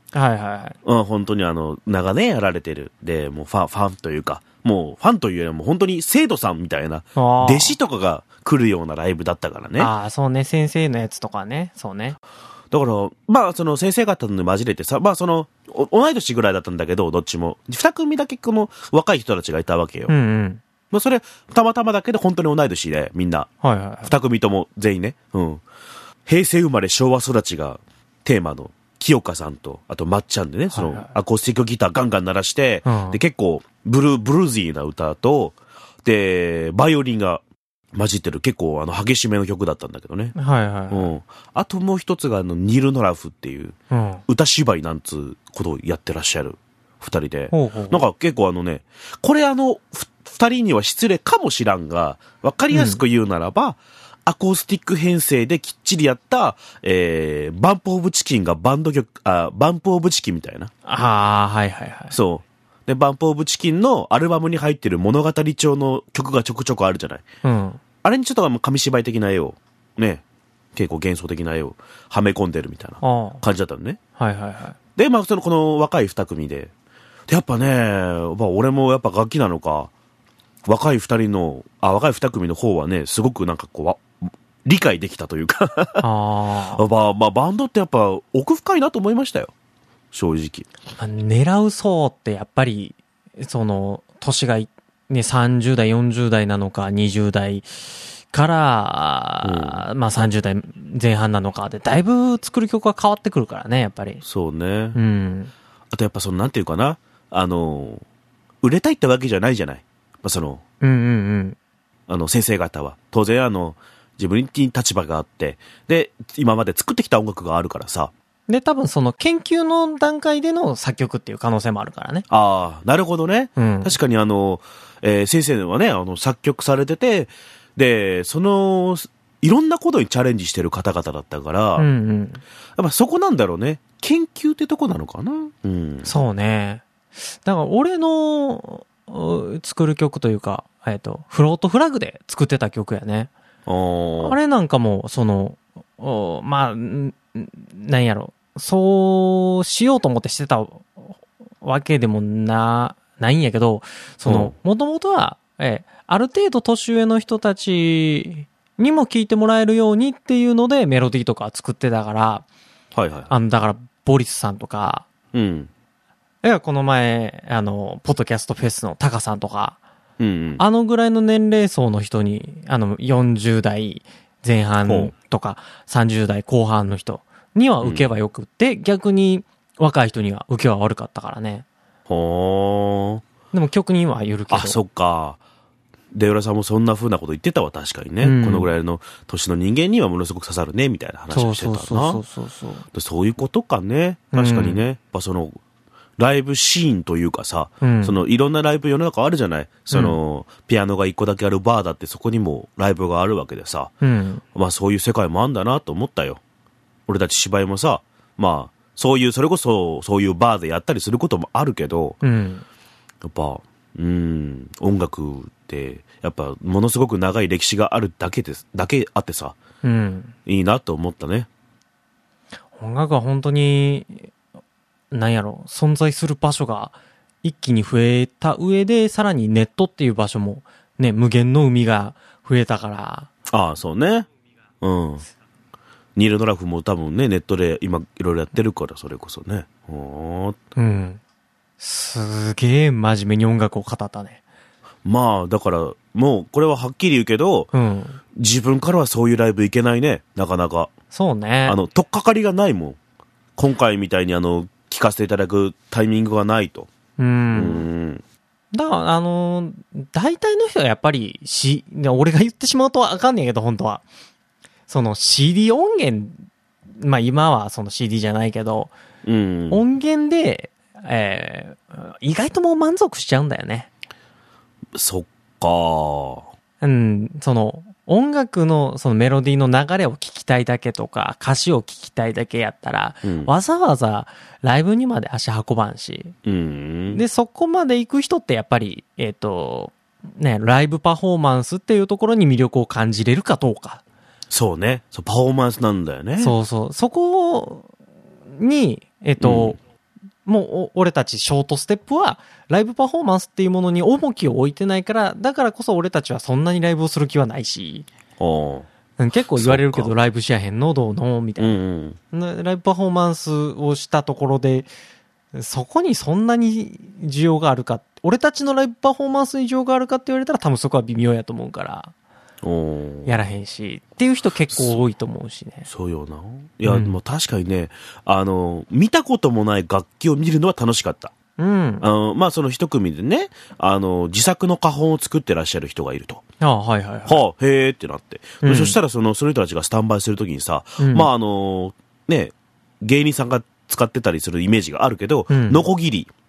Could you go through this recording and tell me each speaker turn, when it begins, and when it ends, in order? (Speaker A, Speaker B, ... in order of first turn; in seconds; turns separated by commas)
Speaker A: 0.1-0.8, Speaker B: 0.8-9.9, Speaker A: 7.2-7.8, Speaker A: 9.8-12.2, Speaker B: 12.7-20.1, Speaker A: 20.1-20.6, Speaker B: 20.9-23.5, Speaker A: 23.6-24.1, Speaker B: 24.0-25.6, Speaker B: 26.2-37.4, Speaker A: 30.7-31.1, Speaker A: 32.9-33.2, Speaker B: 37.9-40.4, Speaker A: 40.4-41.1, Speaker B: 40.9-43.7, Speaker A: 43.9-44.2, Speaker B: 44.3-60.7, Speaker A: 47.5-48.0, Speaker A: 52.7-53.0, Speaker A: 60.9-62.1, Speaker B: 62.1-67.2, Speaker A: 67.4-67.8, Speaker B: 68.0-70.2, Speaker B: 70.7-74.0, Speaker A: 73.0-73.4, Speaker A: 74.2-74.8, Speaker B: 75.0-76.7, Speaker B: 77.3-79.9, Speaker B: 80.7-84.1, Speaker B: 84.6-86.0, Speaker A: 86.0-86.8, Speaker B: 86.7-89.5, Speaker B: 90.1-90.7, Speaker A: 91.0-104.2, Speaker B: 99.4-99.8, Speaker B: 104.2-105.0, Speaker A: 104.9-105.5, Speaker B: 105.9-108.0, Speaker B: 108.6-110.6, Speaker A: 110.8-111.6, Speaker B: 112.1-118.1, Speaker A: 118.5-122.2, Speaker B: 122.3-131.9, Speaker A: 123.6-124.0, Speaker A: 131.8-132.4, Speaker B: 132.8-136.1, Speaker A: 136.0-143.3, Speaker B: 143.7-144.4, Speaker A: 144.2-162.4, Speaker B: 154.2-154.5, Speaker B: 162.9-163.3, Speaker A: 163.3-165.1, Speaker B: 165.3-165.7, Speaker A: 166.4-169.8, Speaker B: 170.2-170.6, Speaker A: 170.6-181.7, Speaker B: 174.8-175.1, Speaker B: 177.8-178.1, Speaker B: 182.1-183.2, Speaker A: 183.5-184.8, Speaker B: 184.5-185.4, Speaker B: 186.1-192.2, Speaker A: 188.2-188.7, Speaker A: 191.3-192.8, Speaker B: 192.9-195.6, Speaker A: 194.3-194.8, Speaker B: 196.2-203.9, Speaker A: 197.8-198.2, Speaker A: 199.9-200.2, Speaker A: 204.0-204.4, Speaker B: 204.5-206.4, Speaker B: 207.1-212.2, Speaker A: 212.2-212.6, Speaker B: 213.2-219.6, Speaker A: 219.8-220.3, Speaker B: 220.4-221.5, Speaker A: 222.8-224.3, Speaker A: 225.1-233.3, Speaker B: 233.5-234.3, Speaker B: 234.8-235.2, Speaker B: 236.2-240.6, Speaker A: 240.8-241.2, Speaker A: 241.8-244.4, Speaker B: 245.0-247.7, Speaker A: 247.7-248.2, Speaker B: 248.3-250.9, Speaker A: 251.1-251.8, Speaker B: 251.7-253.0, Speaker B: 253.6-256.9, Speaker A: 257.2-257.9, Speaker B: 257.5-258.2, Speaker A: 258.7-264.0, Speaker A: 264.9-266.4, Speaker A: 266.9-268.9, Speaker B: 269.2-269.8, Speaker A: 269.7-273.9, Speaker B: 274.9-276.5, Speaker A: 276.8-286.3, Speaker B: 283.2-283.5, Speaker B: 286.4-287.2, Speaker A: 287.1-294.0, Speaker B: 294.5-296.5, Speaker A: 296.4-297.9, Speaker A: 298.5-299.8, Speaker B: 299.4-299.8, Speaker A: 300.4-308.1, Speaker B: 308.4-308.9, Speaker A: 309.2-311.8, Speaker B: 309.5-310.1, Speaker B: 311.6-312.2, Speaker A: 312.3-314.9, Speaker A: 315.5-322.1, Speaker B: 322.6-323.4, Speaker A: 323.2-325.9, Speaker B: 325.9-331.3, Speaker A: 326.9-327.2, Speaker A: 331.6-332.0, Speaker B: 332.0-336.4, Speaker A: 336.6-337.4, Speaker B: 337.2-346.3, Speaker A: 338.6-339.0, Speaker A: 341.0-341.3, Speaker A: 345.5-345.9